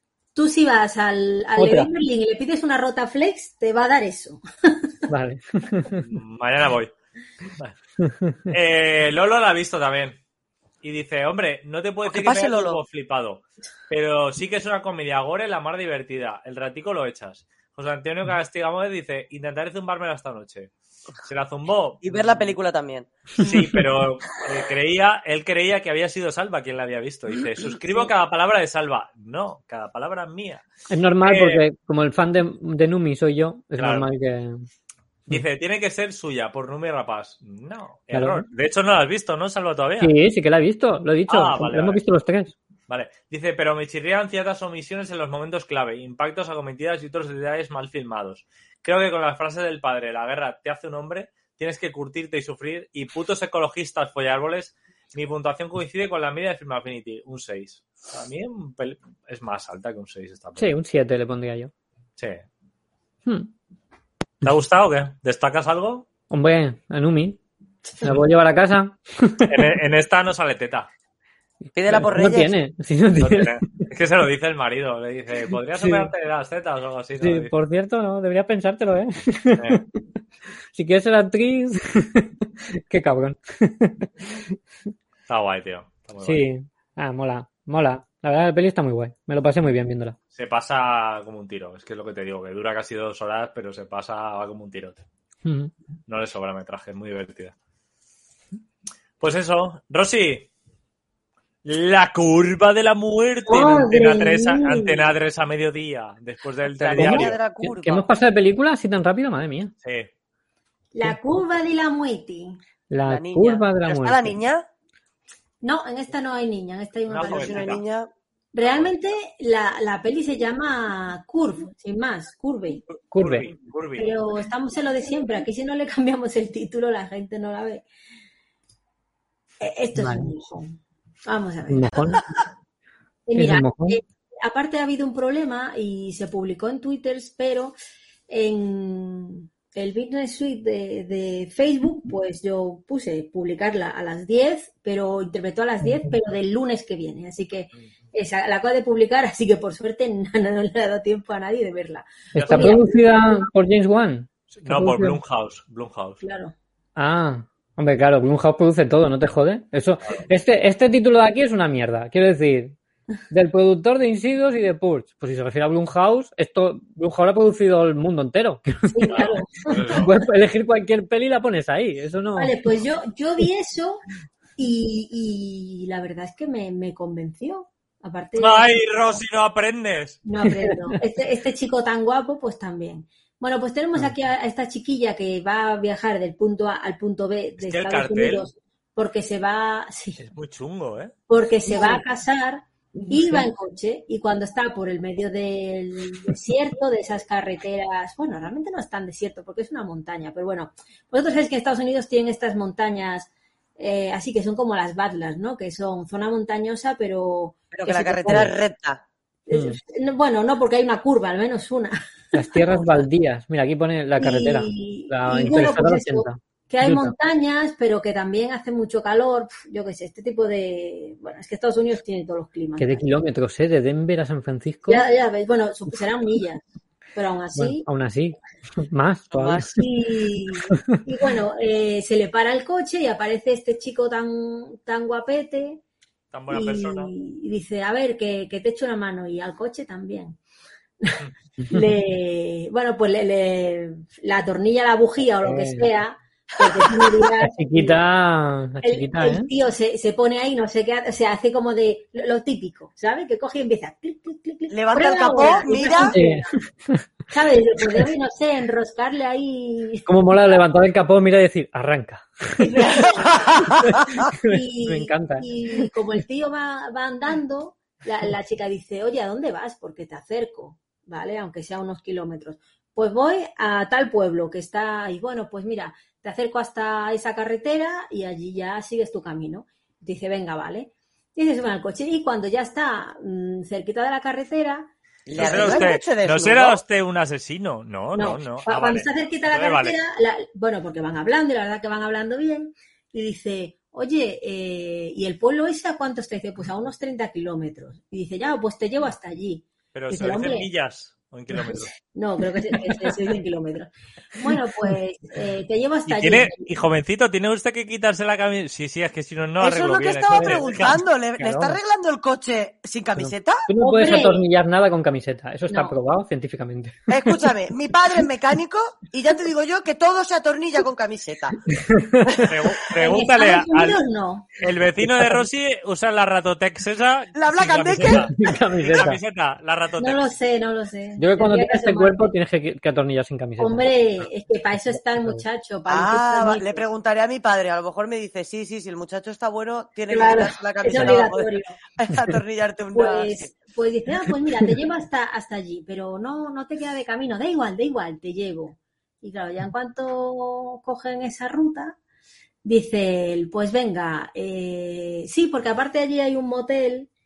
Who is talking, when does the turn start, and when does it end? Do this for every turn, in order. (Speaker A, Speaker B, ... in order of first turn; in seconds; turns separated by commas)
Speaker A: 0.3-4.8, Speaker B: 1.6-1.9, Speaker B: 5.1-6.1, Speaker C: 6.0-6.9, Speaker B: 8.0-8.4, Speaker C: 8.5-10.2, Speaker C: 10.8-20.7, Speaker D: 12.1-12.8, Speaker C: 21.2-22.4, Speaker D: 22.0-23.1, Speaker C: 23.4-30.6, Speaker B: 30.9-34.6, Speaker C: 31.2-31.6, Speaker C: 33.8-34.1, Speaker C: 35.3-40.1, Speaker B: 38.1-38.4, Speaker B: 40.0-42.5, Speaker C: 41.3-42.0, Speaker C: 42.9-60.7, Speaker B: 60.6-61.7, Speaker C: 64.4-66.1, Speaker B: 66.3-67.4, Speaker B: 68.0-69.7, Speaker C: 69.5-70.9, Speaker B: 71.6-73.8, Speaker D: 71.7-72.5, Speaker C: 73.2-77.5, Speaker B: 75.7-76.1, Speaker B: 77.2-79.8, Speaker B: 80.7-82.3, Speaker B: 82.9-84.5, Speaker C: 85.3-86.4, Speaker B: 86.2-90.2, Speaker C: 90.3-95.0, Speaker B: 95.4-95.7, Speaker C: 96.1-97.5, Speaker C: 99.2-100.5, Speaker C: 101.6-107.4, Speaker A: 103.5-105.1, Speaker D: 106.8-108.0, Speaker B: 107.0-109.7, Speaker C: 109.8-110.1, Speaker A: 110.9-112.6, Speaker B: 112.9-114.4, Speaker D: 113.0-114.7, Speaker A: 115.6-117.7, Speaker C: 117.1-117.8, Speaker D: 117.2-118.1, Speaker A: 118.5-122.8, Speaker C: 118.6-119.0, Speaker C: 123.0-124.2, Speaker B: 123.1-123.5, Speaker A: 124.0-127.8, Speaker A: 129.6-130.7, Speaker B: 129.9-130.3, Speaker A: 131.2-132.4, Speaker B: 131.7-132.2, Speaker A: 133.2-137.7, Speaker B: 133.4-134.0, Speaker A: 138.3-153.4, Speaker B: 152.3-155.2, Speaker C: 152.4-152.8, Speaker C: 154.5-156.2, Speaker A: 156.2-156.5, Speaker B: 156.9-162.7, Speaker B: 163.3-169.1, Speaker A: 168.9-170.1, Speaker C: 169.1-170.1, Speaker B: 170.0-172.5, Speaker A: 172.3-174.0, Speaker A: 174.6-178.7, Speaker C: 178.4-180.2, Speaker A: 180.2-190.2, Speaker C: 187.6-188.5, Speaker C: 190.2-191.1, Speaker A: 191.3-208.5, Speaker B: 193.0-193.4, Speaker D: 207.7-209.0, Speaker A: 209.5-212.9, Speaker B: 209.5-209.8, Speaker B: 212.3-217.1, Speaker A: 214.2-223.0, Speaker B: 222.8-225.0, Speaker A: 224.8-226.6, Speaker A: 227.1-227.8, Speaker B: 227.6-229.8, Speaker D: 229.3-229.8, Speaker A: 229.8-235.8, Speaker C: 236.3-237.1, Speaker A: 236.5-240.4, Speaker A: 241.0-248.0, Speaker B: 241.6-241.8, Speaker B: 245.4-245.9, Speaker D: 246.6-247.2, Speaker B: 247.4-249.5, Speaker A: 248.8-256.4, Speaker D: 254.7-256.1, Speaker B: 256.1-257.0, Speaker A: 257.3-260.1, Speaker B: 260.1-262.6, Speaker A: 262.6-285.9, Speaker B: 263.8-265.4, Speaker D: 285.3-286.8, Speaker C: 285.3-290.0, Speaker A: 288.1-300.7, Speaker C: 299.9-301.9, Speaker A: 301.6-306.7, Speaker C: 306.1-311.0, Speaker D: 309.6-313.6, Speaker B: 311.4-311.8, Speaker B: 313.1-317.0, Speaker A: 313.8-314.4, Speaker A: 315.7-315.9, Speaker D: 317.1-321.6, Speaker B: 321.7-322.4, Speaker C: 322.4-324.0, Speaker A: 322.9-324.5, Speaker C: 324.6-330.3, Speaker D: 327.4-328.3, Speaker B: 328.1-329.2, Speaker A: 330.0-332.3, Speaker B: 331.2-333.8, Speaker A: 333.6-336.8, Speaker B: 335.2-335.4, Speaker D: 335.9-343.5, Speaker A: 340.1-341.7, Speaker A: 342.9-351.9, Speaker A: 352.6-357.1